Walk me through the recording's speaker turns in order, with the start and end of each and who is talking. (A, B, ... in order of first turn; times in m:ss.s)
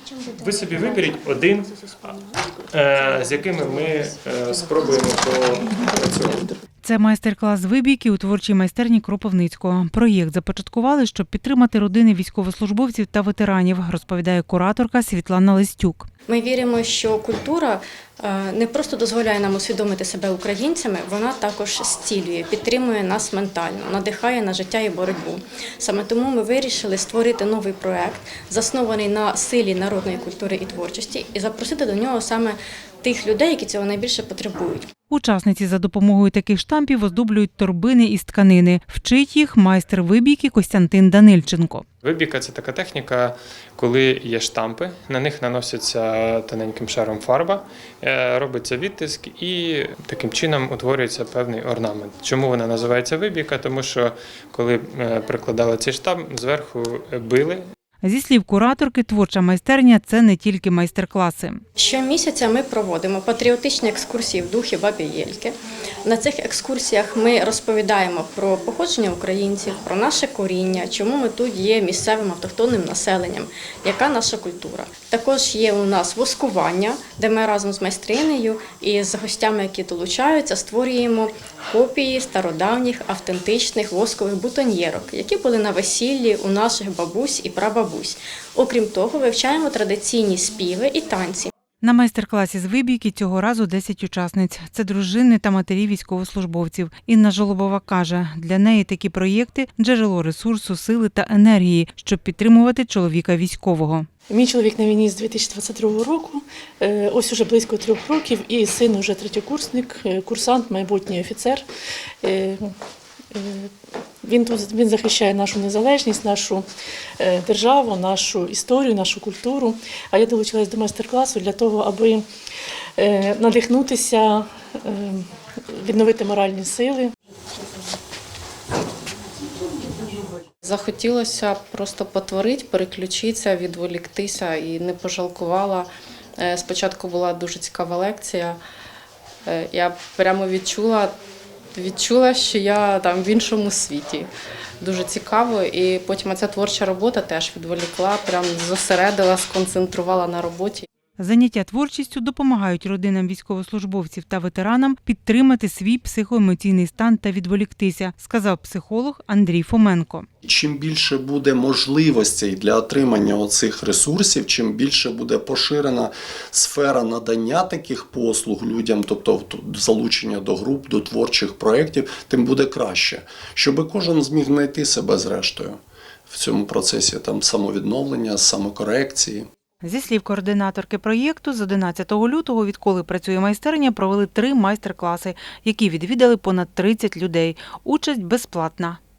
0:00.3-0:02.2 A
0:02.7-0:06.6 A
0:06.8-0:16.1 B
0:16.3-0:34.9 C
0:35.1-0:41.8 B
0:42.0-0:57.6 A
0:58.0-1:01.6 B
1:01.8-1:31.5 C
1:31.8-1:44.1 B
1:44.3-1:51.7 D
1:52.2-1:52.8 D
1:53.3-1:53.7 D
1:54.2-1:56.7 D
1:57.2-2:02.3 D
2:03.0-2:07.1 D
2:10.6-2:18.6 E
2:19.5-2:21.1 E
2:21.7-2:24.3 E
2:24.8-2:30.9 E
2:31.2-2:40.3 B
2:40.4-2:59.5 F
2:59.8-3:09.0 B